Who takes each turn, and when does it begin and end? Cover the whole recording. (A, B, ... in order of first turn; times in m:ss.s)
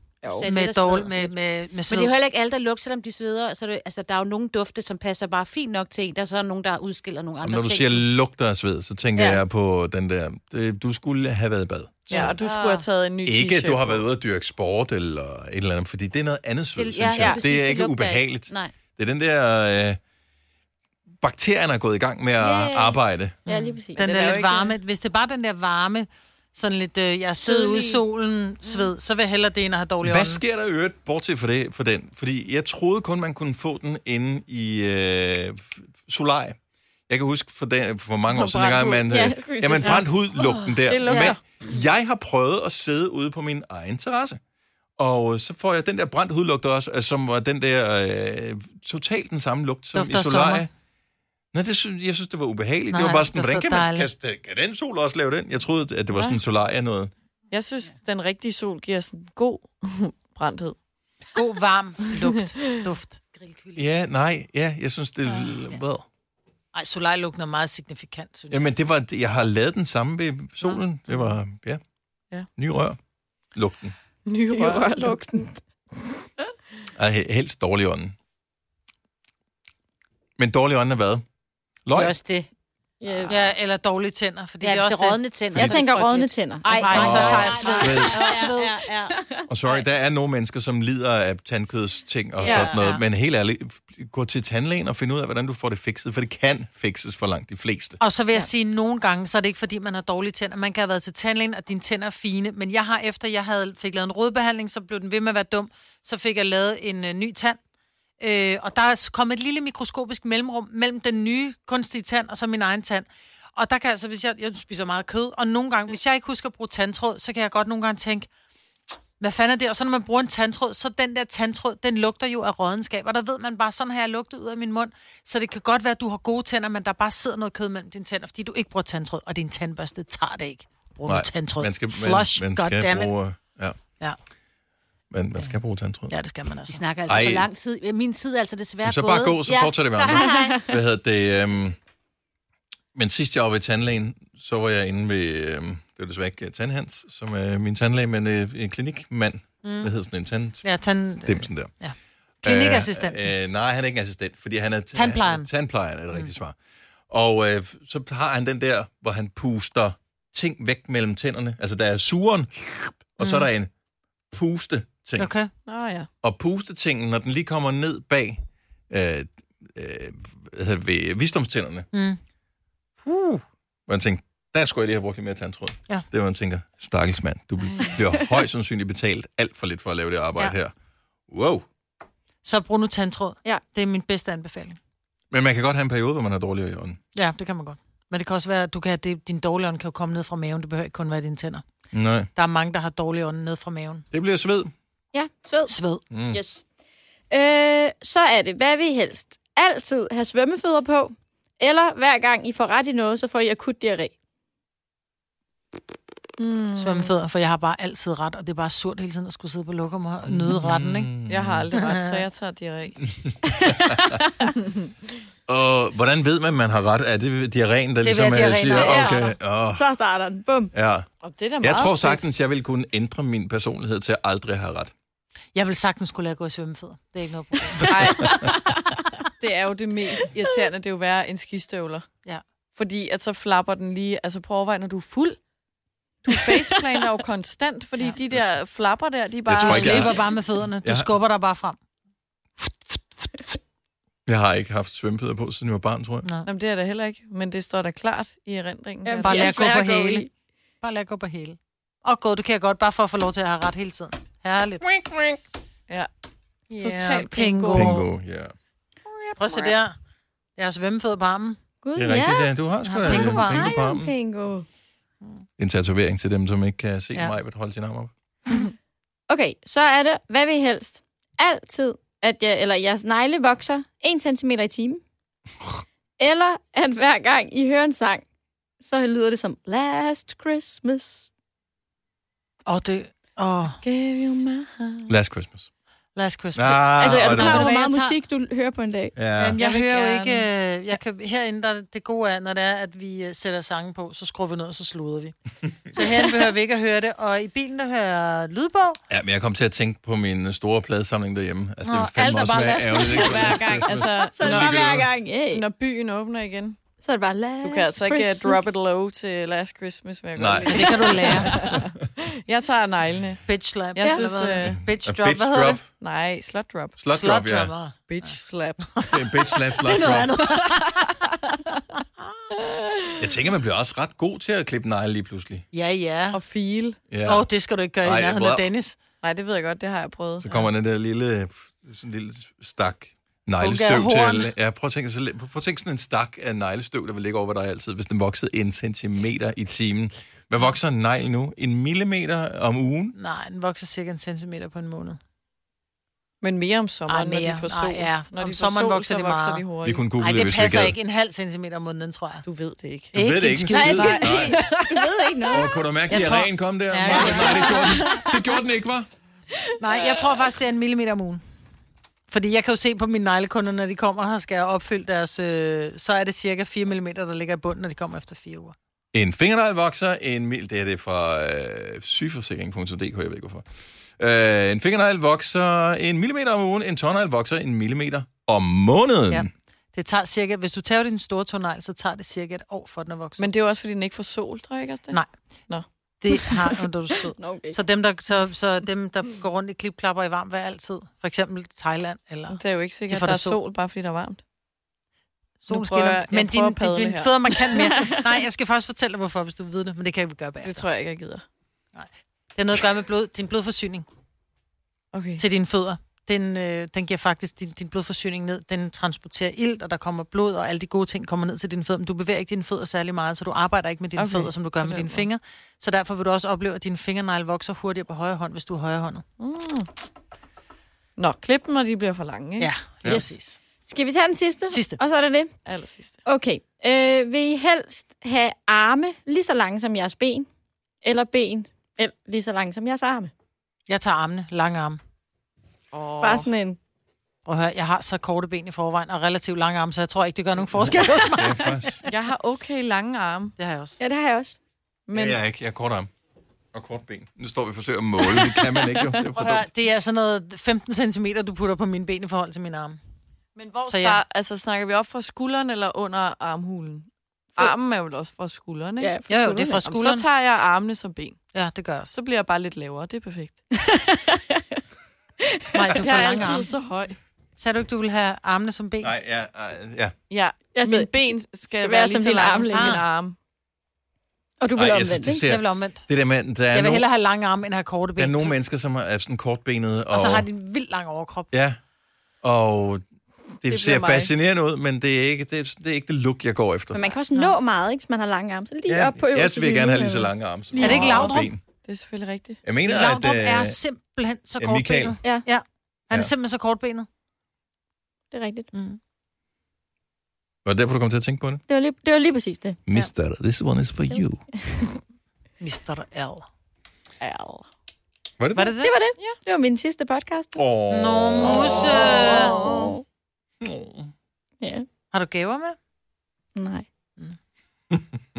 0:00.3-0:01.3 A
0:00.4-0:02.1 B
0:01.9-0:08.0 A
0:07.4-0:12.3 C
0:09.2-0:09.4 D
0:12.1-0:14.1 E
0:12.1-0:12.8 A
0:13.2-0:20.0 C
0:16.8-0:18.7 A
0:17.2-0:17.4 D
0:21.2-0:23.4 C
0:22.4-0:23.8 A
0:23.5-0:24.4 D
0:24.0-0:24.8 E
0:24.0-0:30.4 B
0:30.0-0:36.6 C
0:37.1-0:44.4 C
0:38.5-0:38.9 E
0:38.5-0:40.0 D
0:40.9-0:41.4 E
0:41.0-0:41.4 D
0:45.0-0:50.7 C
0:49.9-0:50.6 B
0:51.5-0:57.1 C
0:52.9-0:54.1 B
0:56.1-0:56.4 E
0:57.5-1:00.8 E
1:01.3-1:03.8 B
1:03.8-1:06.0 C
1:06.7-1:08.7 B
1:08.5-1:11.8 C
1:12.6-1:13.0 C
1:13.5-1:13.9 C
1:14.2-1:15.5 E
1:14.5-1:15.5 D
1:17.0-1:18.1 C
1:20.4-1:21.2 C
1:21.8-1:22.1 C
1:21.9-1:22.5 A
1:23.0-1:23.5 D
1:23.3-1:25.2 B
1:24.6-1:29.2 A
1:25.5-1:29.5 D
1:25.9-1:26.3 E
1:26.6-1:28.8 B
1:26.9-1:28.4 C
1:29.5-1:38.0 C
1:32.4-1:33.0 A
1:32.4-1:32.8 D
1:38.0-1:47.6 B
1:48.2-1:58.3 B
1:59.2-2:13.1 B
2:11.1-2:13.8 C
2:15.1-2:16.1 C
2:16.1-2:16.8 B
2:16.7-2:20.6 A
2:17.1-2:17.5 C
2:18.8-2:21.8 C
2:20.0-2:20.8 D
2:22.9-2:30.7 C
2:29.6-2:29.9 B
2:30.6-2:33.3 B
2:31.2-2:31.7 C
2:32.4-2:36.6 C
2:34.9-2:35.5 B
2:37.1-2:43.7 C
2:43.2-2:43.5 B
2:44.3-2:45.3 C
2:45.2-2:45.5 B
2:45.7-2:46.1 E
2:46.2-2:51.9 C
2:51.9-2:52.2 B
2:53.0-3:00.7 C
3:01.3-3:01.6 C
3:02.4-3:04.8 B
3:05.3-3:07.0 C
3:07.1-3:11.6 B
3:11.9-3:12.3 C
3:12.4-3:14.0 B
3:14.1-3:14.7 C
3:15.1-3:15.8 D
3:15.7-3:16.0 B
3:16.1-3:16.4 C
3:16.3-3:16.6 D
3:17.3-3:24.1 D
3:26.4-3:27.1 E
3:26.8-3:31.1 B
3:30.3-3:31.7 C
3:31.3-3:33.0 E
3:31.7-3:32.2 B
3:33.1-3:34.2 C
3:33.4-3:34.5 D
3:34.6-3:34.9 E
3:35.5-3:39.9 C
3:38.0-3:39.1 B
3:38.7-3:40.7 D
3:40.7-3:41.1 C
3:41.2-3:42.2 E
3:41.6-3:44.9 C
3:45.5-3:47.9 B
3:47.8-3:48.5 E
3:48.1-3:49.2 D
3:49.4-3:52.1 E
3:52.8-3:55.4 E
3:56.2-4:00.2 E
3:59.5-4:00.2 C
3:59.5-4:01.8 B
4:00.8-4:01.1 C
4:02.6-4:03.4 B
4:04.2-4:06.3 C
4:06.4-4:09.6 E
4:09.0-4:10.3 D
4:09.2-4:10.3 B
4:10.8-4:14.8 B
4:14.8-4:15.4 C
4:16.7-4:18.1 B
4:16.8-4:18.0 E
4:17.7-4:18.5 C
4:19.4-4:20.0 B
4:20.6-4:21.6 B
4:21.8-4:22.5 D
4:22.0-4:24.1 C
4:22.8-4:23.7 B
4:23.0-4:24.6 D
4:25.6-4:28.1 C
4:29.3-4:35.0 D
4:36.2-4:38.2 D
4:38.8-4:41.2 D
4:42.6-4:43.8 B
4:43.8-4:45.0 D
4:45.1-4:45.7 C
4:46.2-4:48.2 B
4:46.5-4:47.7 C
4:46.8-4:49.1 D
4:49.1-4:49.6 C
4:49.4-4:55.3 B
4:49.6-4:50.5 E
4:55.9-4:59.0 B
4:59.1-5:05.1 C
5:01.8-5:03.6 B
5:02.9-5:03.5 D
5:03.1-5:04.8 E
5:04.2-5:05.6 D
5:05.5-5:06.8 E
5:07.0-5:08.7 D
5:07.6-5:13.4 E
5:10.4-5:12.0 C
5:10.6-5:11.5 B
5:13.4-5:15.8 B
5:13.9-5:14.8 E
5:14.0-5:14.3 D
5:14.7-5:15.9 C
5:16.0-5:17.0 E
5:17.0-5:17.7 C
5:17.1-5:18.3 B
5:18.1-5:19.3 E
5:19.1-5:20.5 C
5:19.8-5:21.2 B
5:20.5-5:21.6 E
5:22.7-5:23.2 E
5:23.2-5:25.6 C
5:25.7-5:26.4 B
5:26.3-5:27.0 E
5:27.1-5:27.5 C
5:27.2-5:28.9 B
5:28.0-5:28.7 C
5:29.2-5:30.5 E
5:30.4-5:43.2 C
5:33.6-5:34.5 B
5:43.1-5:45.2 B
5:46.4-5:50.0 E
5:47.1-5:49.6 B
5:49.8-5:51.0 C
5:50.2-5:52.4 B
5:52.4-5:53.2 E
5:53.1-5:54.3 B
5:53.1-5:54.6 C
5:53.7-5:55.7 D
5:53.9-5:55.5 E
5:55.5-5:59.1 C
5:56.1-5:56.5 E
5:56.9-5:58.0 B
5:57.1-5:58.4 D
5:57.1-5:57.8 E
5:59.8-6:01.4 B
5:59.8-6:00.3 D
6:02.3-6:08.7 B
6:09.1-6:19.5 C
6:19.3-6:23.5 B
6:23.4-6:26.5 E
6:26.2-6:33.6 B
6:27.4-6:27.8 D
6:32.5-6:34.4 E
6:35.6-6:40.8 B
6:35.7-6:37.8 E
6:37.7-6:38.4 D
6:40.6-6:41.4 E
6:41.9-6:44.0 B
6:45.1-6:45.4 E
6:45.4-6:59.2 B
6:54.2-6:55.3 E
6:59.4-6:59.9 E
7:01.2-7:02.7 E
7:02.6-7:03.6 B
7:03.0-7:05.5 D
7:04.7-7:05.0 B
7:05.6-7:06.2 E
7:06.2-7:10.5 D
7:11.0-7:13.3 D
7:13.9-7:15.0 B
7:15.9-7:16.5 E
7:16.2-7:16.8 D
7:17.4-7:22.0 B
7:20.8-7:22.1 C
7:22.0-7:23.5 E
7:23.6-7:24.0 B
7:24.0-7:24.6 D
7:25.1-7:25.4 E
7:25.1-7:26.1 C
7:26.7-7:29.7 C
7:28.4-7:29.1 D
7:29.3-7:33.0 B
7:33.6-7:39.1 E
7:33.9-7:34.2 B
7:39.0-7:39.8 D
7:39.3-7:40.2 B
7:39.7-7:41.4 E
7:41.5-7:42.1 B
7:42.1-7:43.6 E
7:43.8-7:44.6 D
7:45.4-7:46.6 D
7:45.7-7:46.6 B
7:46.0-7:47.2 E
7:47.6-7:49.1 B
7:49.0-7:50.1 C
7:50.3-7:53.4 E
7:50.7-7:53.0 D
7:52.7-7:53.0 B
7:54.6-7:55.4 D
7:54.8-7:57.0 C
7:55.4-7:56.1 B
7:56.7-7:58.5 B
7:58.2-8:00.5 C
8:00.1-8:01.5 B
8:01.5-8:01.8 C
8:02.4-8:03.0 C
8:03.6-8:07.1 C
8:03.6-8:04.3 E
8:06.9-8:11.4 D
8:08.9-8:11.6 C
8:10.8-8:11.5 B
8:11.8-8:12.6 E
8:12.6-8:13.8 C
8:12.8-8:17.1 B
8:14.6-8:15.2 C
8:18.3-8:18.7 D
8:20.6-8:21.6 C
8:21.7-8:23.1 D
8:22.9-8:24.4 C
8:24.1-8:24.9 D
8:25.6-8:26.4 B
8:27.2-8:27.6 E
8:28.4-8:28.8 C
8:28.5-8:28.9 B
8:28.8-8:30.6 D
8:30.5-8:32.9 C
8:30.9-8:32.7 B
8:31.4-8:33.0 D
8:33.6-8:34.1 C
8:34.6-8:34.8 D
8:35.1-8:35.8 B
8:36.6-8:36.9 D